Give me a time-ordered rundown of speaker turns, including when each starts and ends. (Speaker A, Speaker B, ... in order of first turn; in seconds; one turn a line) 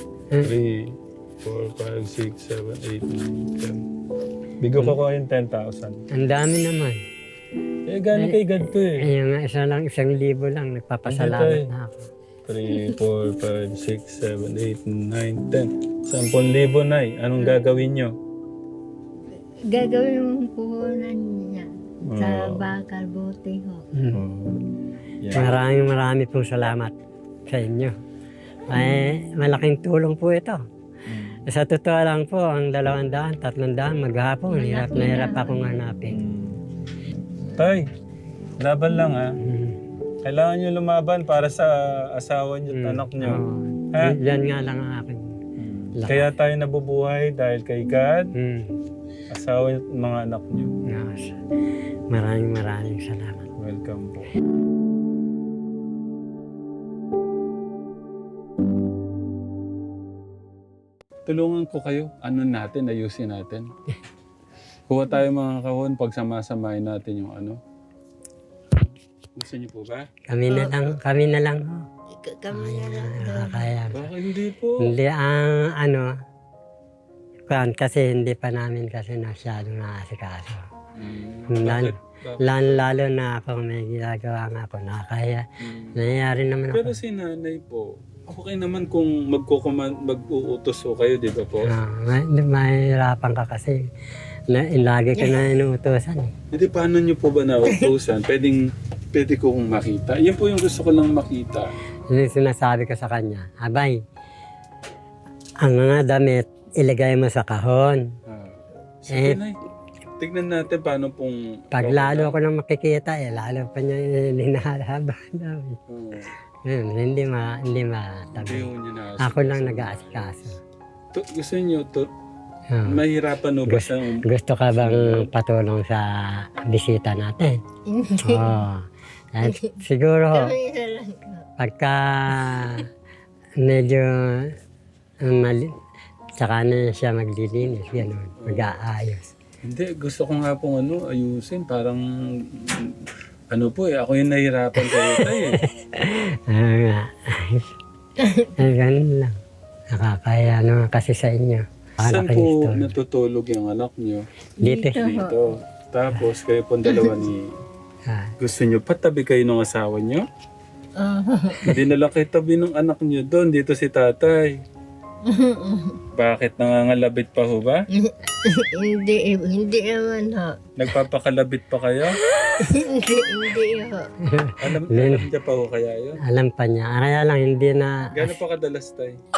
Speaker A: 0.4-3.8
Speaker A: 4.6-6.0
Speaker B: 6.1-7.0
Speaker A: 7.9-8.9
Speaker B: 8.1-12.1
Speaker A: 11.1-11.7
Speaker A: 12.4-18.1
Speaker C: 12.7-12.9
Speaker C: 19.7-23.9
Speaker A: 22.1-22.7
Speaker B: 23.9-24.2
Speaker A: 24.1-24.6
Speaker A: 25.2-25.6
Speaker B: 25.3-26.9
Speaker B: 27.5-27.9
Speaker B: 28.7-30.6
Speaker A: 31.1-31.4
Speaker B: 31.5-36.2
Speaker C: 34.5-35.6
Speaker A: 36.1-36.6
Speaker A: 37.5-37.9
Speaker A: 38.6-39.4
Speaker B: 39.4-39.8
Speaker A: 40.2-43.4
Speaker B: 42.7-45.3
Speaker A: 43.9-44.2
Speaker A: 45.6-48.3
Speaker B: 46.0-46.3
Speaker B: 48.3-48.8
Speaker A: 49.3-50.8
Speaker B: 50.9-51.4
Speaker B: 52.1-53.5
Speaker A: 53.6-54.3
Speaker A: 61.2-63.7
Speaker A: 64.9-67.6
Speaker A: 69.3-70.1
Speaker B: 70.3-71.8
Speaker C: 70.5-71.0
Speaker C: 72.2-73.8
Speaker B: 72.5-74.0
Speaker A: 73.9-75.0
Speaker B: 74.8-76.1
Speaker B: 77.5-80.6
Speaker A: 81.0-82.6
Speaker B: 81.5-86.9
Speaker A: 85.6-86.0
Speaker A: 86.7-91.7
Speaker B: 91.6-93.9
Speaker B: 94.5-96.3
Speaker C: 95.2-95.5
Speaker A: 96.5-98.6
Speaker A: 99.1-101.7
Speaker B: 102.1-104.0
Speaker B: 105.6-108.0
Speaker A: 108.3-109.6
Speaker B: 109.1-109.4
Speaker A: 110.2-112.4
Speaker B: 111.7-115.8
Speaker A: 115.9-116.3
Speaker B: 116.7-120.6
Speaker A: 118.3-120.2
Speaker A: 121.1-122.1
Speaker B: 122.7-123.0
Speaker A: 122.9-124.2
Speaker B: 123.7-127.6
Speaker A: 124.8-125.3
Speaker C: 127.9-128.6
Speaker B: 128.2-130.5
Speaker C: 129.4-129.7
Speaker C: 130.3-131.4
Speaker B: 131.6-132.9
Speaker B: 133.6-134.5
Speaker B: 135.2-135.8
Speaker B: 136.4-139.3
Speaker A: 138.4-138.7
Speaker A: 139.6-142.9
Speaker A: 143.5-145.6
Speaker B: 144.8-147.7
Speaker C: 148.2-148.5
Speaker B: 148.6-149.3
Speaker B: 149.9-152.9
Speaker A: 152.0-154.2
Speaker B: 154.6-155.0
Speaker C: 154.6-155.4
Speaker A: 154.9-157.5
Speaker B: 158.1-158.3
Speaker A: 158.4-160.2
Speaker C: 161.0-161.8
Speaker A: 161.6-164.5
Speaker C: 165.2-166.0
Speaker A: 166.1-167.8
Speaker C: 167.9-170.6
Speaker A: 170.8-172.2
Speaker C: 172.5-174.1
Speaker B: 174.3-175.2
Speaker A: 174.6-176.2
Speaker B: 176.2-178.3
Speaker A: 178.1-179.2